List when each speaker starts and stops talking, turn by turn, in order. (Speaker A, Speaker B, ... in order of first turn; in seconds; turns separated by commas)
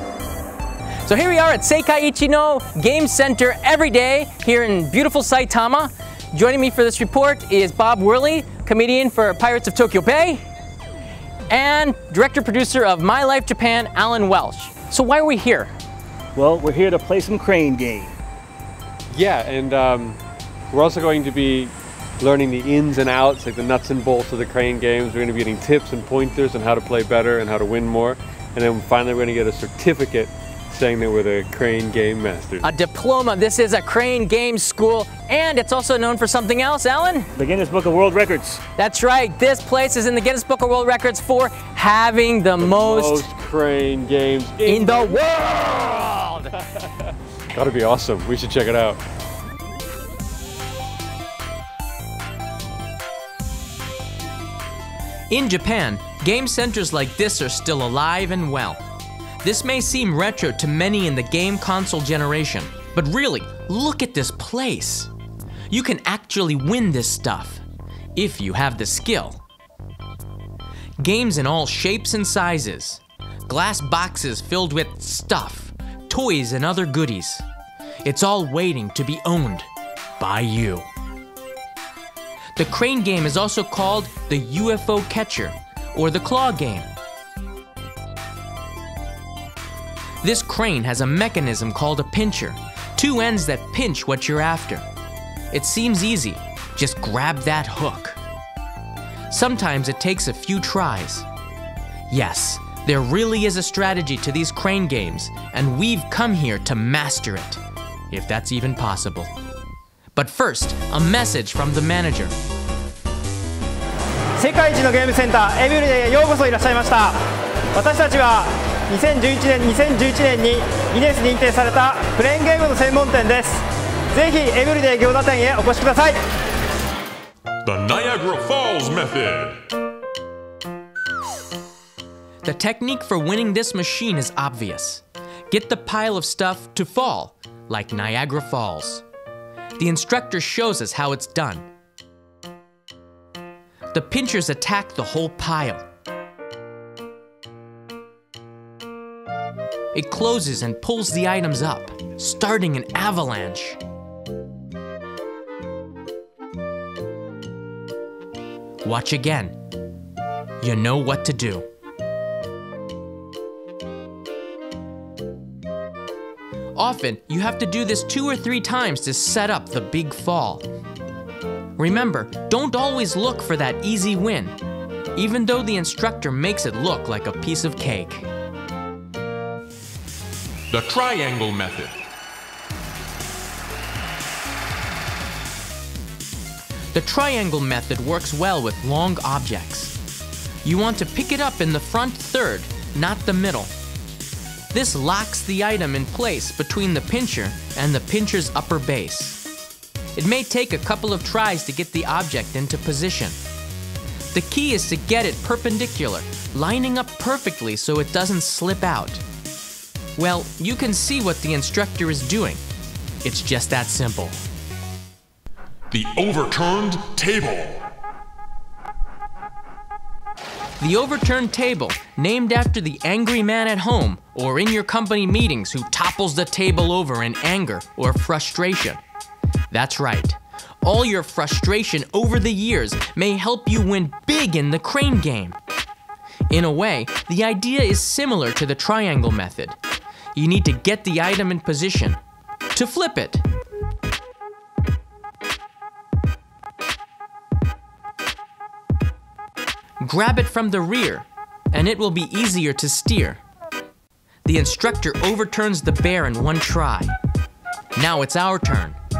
Speaker A: 1.1-10.4, Speaker A: 11.5-15.7, Speaker B: 16.4-18.2, Speaker C: 19.1-20.2, Speaker C: 20.7-32.6, Speaker A: 32.6-37.3, Speaker B: 37.4-38.6, Speaker A: 38.8-43.2, Speaker C: 42.6-45.2, Speaker A: 44.6-46.5, Speaker C: 47.5-49.0, Speaker A: 55.3-58.8, Speaker A: 59.4-65.1, Speaker A: 65.7-67.6, Speaker A: 68.2-69.4, Speaker A: 71.0-77.4, Speaker A: 78.0-80.8, Speaker A: 82.5-86.9, Speaker A: 90.2-94.8, Speaker A: 95.5-98.2, Speaker A: 99.3-101.3, Speaker A: 102.1-109.3, Speaker A: 110.1-112.3, Speaker D: 114.4-117.1, Speaker D: 117.8-123.5, Speaker D: 124.2-126.1, Speaker E: 127.6-129.6, Speaker A: 132.4-139.0, Speaker A: 139.8-141.7, Speaker A: 143.9-145.8, Speaker A: 149.9-153.8, Speaker A: 158.8-159.6, Speaker A: 160.6-161.7, Speaker A: 166.8-170.7, Speaker A: 171.8-174.6, Speaker A: 175.2-178.3, Speaker E: 180.7-181.9, Speaker A: 186.9-189.9, Speaker A: 190.6-193.7, Speaker A: 194.7-199.4, Speaker A: 200.2-203.4, Speaker A: 204.3-209.2, Speaker A: 210.2-212.6, Speaker A: 213.2-214.4, Speaker E: 215.9-217.8, Speaker A: 220.8-229.0, Speaker A: 229.7-235.6, Speaker A: 236.5-239.8, Speaker A: 240.3-242.2, Speaker A: 242.7-243.4, Speaker A: 250.0-253.4, Speaker A: 254.4-257.1, Speaker A: 257.9-259.0